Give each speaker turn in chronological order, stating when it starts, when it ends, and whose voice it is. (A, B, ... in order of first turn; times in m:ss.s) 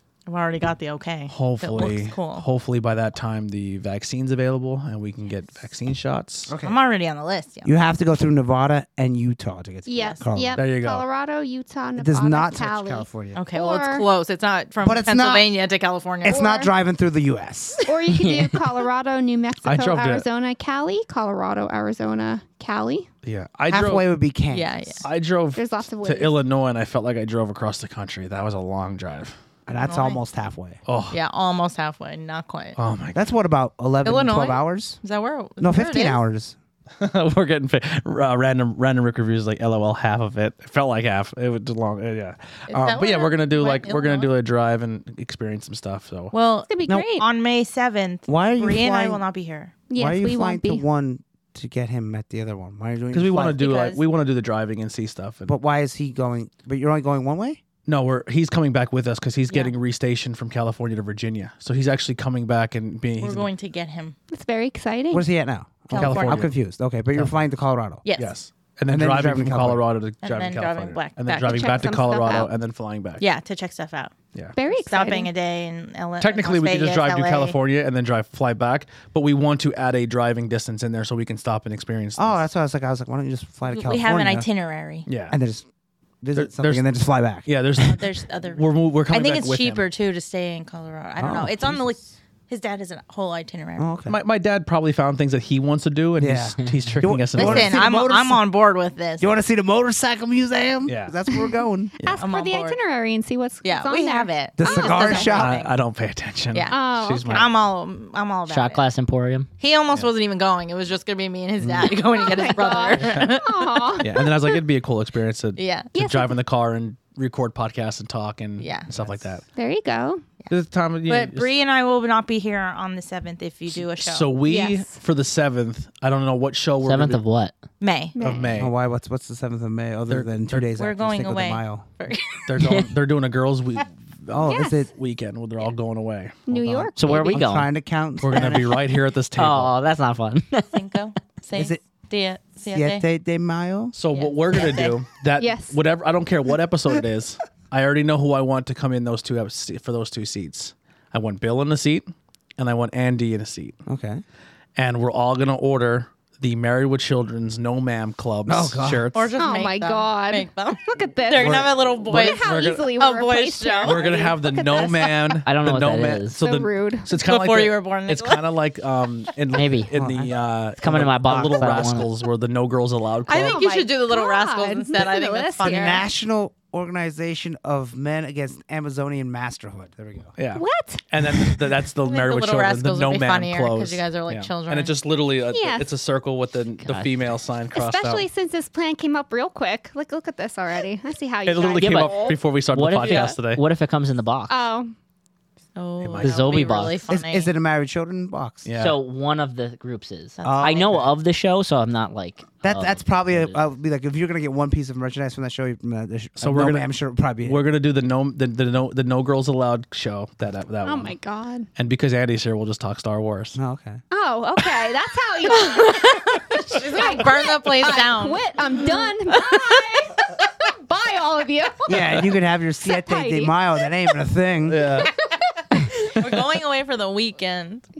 0:00.3-0:02.4 A
0:01.3-0:06.5 B
0:06.5-0:06.8 C
0:06.6-0:07.7 A
0:07.6-0:10.6 C
0:09.8-0:14.1 D
0:10.0-0:10.2 A
0:10.6-0:11.0 B
0:12.0-0:13.4 C
0:13.3-0:16.4 A
0:14.8-0:15.5 C
0:16.2-0:17.8 C
0:16.2-0:16.7 D
0:17.8-0:23.1 D
0:18.1-0:18.6 E
0:19.6-0:20.2 B
0:23.2-0:24.1 B
0:23.7-0:25.0 C
0:24.5-0:25.0 A
0:25.0-0:29.4 B
0:25.5-0:26.4 D
0:29.7-0:30.8 C
0:29.8-0:30.2 A
0:30.8-0:31.2 B
0:31.1-0:32.8 A
0:32.8-0:33.3 B
0:33.1-0:35.0 C
0:34.0-0:36.2 A
0:35.6-0:36.6 C
0:37.0-0:46.3 B
0:42.7-0:44.3 A
0:46.3-0:49.8 A
0:46.7-0:47.2 D
0:48.3-0:49.2 C
0:49.9-0:50.8 D
0:50.0-0:53.6 C
0:53.1-0:55.5 B
0:53.6-0:54.0 A
0:55.4-0:57.6 C
0:57.9-1:03.5 B
0:59.5-0:59.7 A
1:03.2-1:04.1 A
1:04.3-1:05.3 D
1:05.1-1:08.0 C
1:05.9-1:06.5 A
1:05.9-1:06.5 B
1:08.0-1:08.4 A
1:08.2-1:13.2 B
1:08.9-1:09.8 C
1:10.2-1:11.8 A
1:11.4-1:12.5 D
1:13.2-1:14.1 A
1:14.5-1:15.3 D
1:14.7-1:17.6 A
1:16.2-1:22.4 B
1:22.2-1:24.5 C
1:23.7-1:25.1 A
1:25.1-1:25.4 B
1:25.2-1:25.7 C
1:26.2-1:27.9 C
1:26.3-1:26.9 B
1:27.4-1:29.8 B
1:27.8-1:33.9 A
1:31.2-1:31.8 C
1:33.8-1:34.2 C
1:34.1-1:37.8 B
1:36.2-1:38.4 C
1:37.3-1:39.3 A
1:39.2-1:41.9 C
1:40.8-1:41.2 B
1:42.0-1:42.2 B
1:42.0-1:45.4 D
1:42.2-1:42.8 A
1:43.6-1:45.8 A
1:44.6-1:45.6 C
1:45.3-1:47.5 B
1:46.5-1:48.8 A
1:46.7-1:47.5 D
1:48.5-1:49.5 E
1:49.6-1:54.0 A
1:51.6-1:52.0 C
1:52.2-1:54.6 D
1:53.0-1:53.3 B
1:54.0-1:59.4 B
1:55.6-1:55.9 A
1:55.9-1:56.3 D
1:58.6-1:59.1 A
1:59.5-2:00.3 D
2:00.5-2:01.5 B
2:01.1-2:04.3 A
2:03.7-2:07.2 B
2:04.4-2:05.0 D
2:06.8-2:07.6 E
2:07.8-2:08.2 A
2:08.2-2:08.6 D
2:08.2-2:08.7 B
2:08.5-2:11.8 C
2:10.1-2:10.7 B
2:10.8-2:12.7 A
2:12.5-2:16.4 B
2:12.6-2:12.9 E
2:14.3-2:14.9 C
2:14.5-2:14.8 D
2:16.5-2:17.4 D
2:16.5-2:18.8 C
2:17.0-2:17.7 E
2:18.2-2:19.7 B
2:19.3-2:20.8 E
2:20.7-2:23.0 A
2:21.5-2:21.8 C
2:22.7-2:23.9 C
2:23.9-2:33.8 B
2:24.1-2:25.0 A
2:25.4-2:25.8 D
2:33.8-2:34.2 C
2:34.8-2:39.3 B
2:38.4-2:39.1 C
2:39.1-2:45.4 A
2:39.4-2:45.1 D
2:41.4-2:43.0 B
2:43.8-2:53.6 B
2:45.4-2:46.4 E
2:46.4-2:47.1 D
2:47.2-2:48.5 A
2:49.5-2:50.0 E
2:49.9-2:50.3 C
2:50.8-2:52.1 E
2:53.3-2:56.0 A
2:53.4-2:56.0 D
2:55.7-3:00.4 C
3:00.4-3:08.3 B
3:00.5-3:01.6 D
3:02.0-3:05.0 A
3:05.5-3:05.9 D
3:06.8-3:07.2 E
3:07.7-3:12.4 D
3:11.4-3:13.6 B
3:11.8-3:14.6 E
3:13.0-3:13.3 D
3:14.5-3:15.0 D
3:15.8-3:17.5 A
3:16.0-3:16.5 B
3:16.2-3:17.0 E
3:17.1-3:18.7 C
3:18.6-3:19.0 B
3:18.8-3:23.6 E
3:20.4-3:21.0 A
3:20.4-3:20.9 C
3:22.6-3:27.7 C
3:26.4-3:26.9 B
3:27.4-3:31.2 B
3:30.8-3:31.7 D
3:31.8-3:33.6 B
3:33.5-3:34.0 C
3:34.1-3:42.3 D
3:35.5-3:39.9 A
3:41.9-3:45.0 C
3:42.9-3:43.6 D
3:44.6-3:45.1 B
3:45.0-3:46.1 D
3:45.9-3:47.9 A